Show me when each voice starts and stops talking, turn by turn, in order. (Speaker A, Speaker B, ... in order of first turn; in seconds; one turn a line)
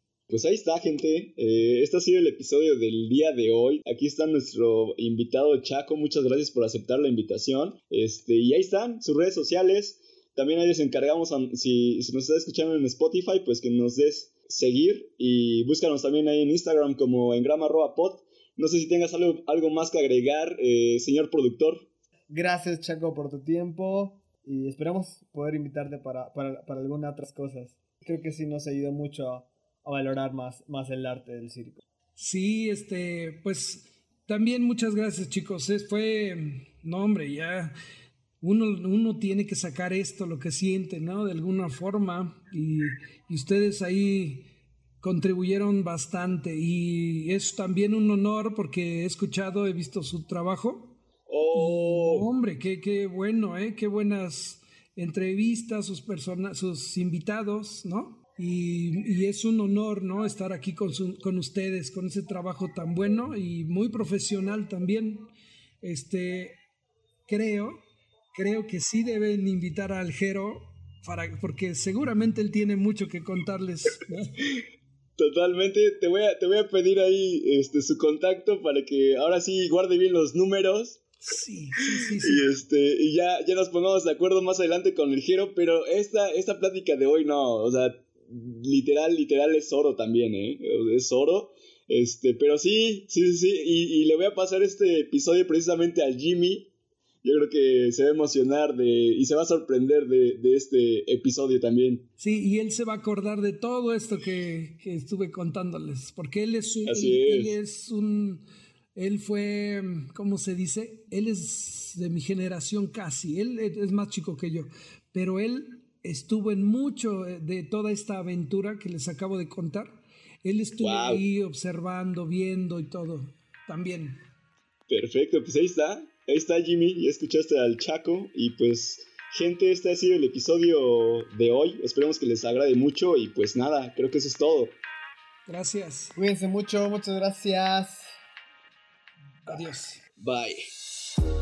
Speaker A: 0.3-21.9
Speaker B: 22.3-31.8
Speaker C: 32.2-37.7
Speaker C: 38.4-44.5
Speaker C: 45.0-51.0
Speaker A: 51.3-52.3
Speaker C: 51.5-66.6
Speaker C: 67.3-67.8
Speaker C: 68.3-74.4
Speaker A: 75.2-81.0
Speaker C: 81.2-82.5
Speaker A: 82.1-96.7
Speaker A: 97.2-102.1
Speaker C: 102.2-124.2
Speaker A: 106.9-107.6
Speaker A: 120.8-121.2
Speaker A: 124.9-134.8
Speaker C: 135.5-136.2
Speaker B: 136.2-138.2
Speaker C: 139.4-140.1
Speaker A: 140.2-140.7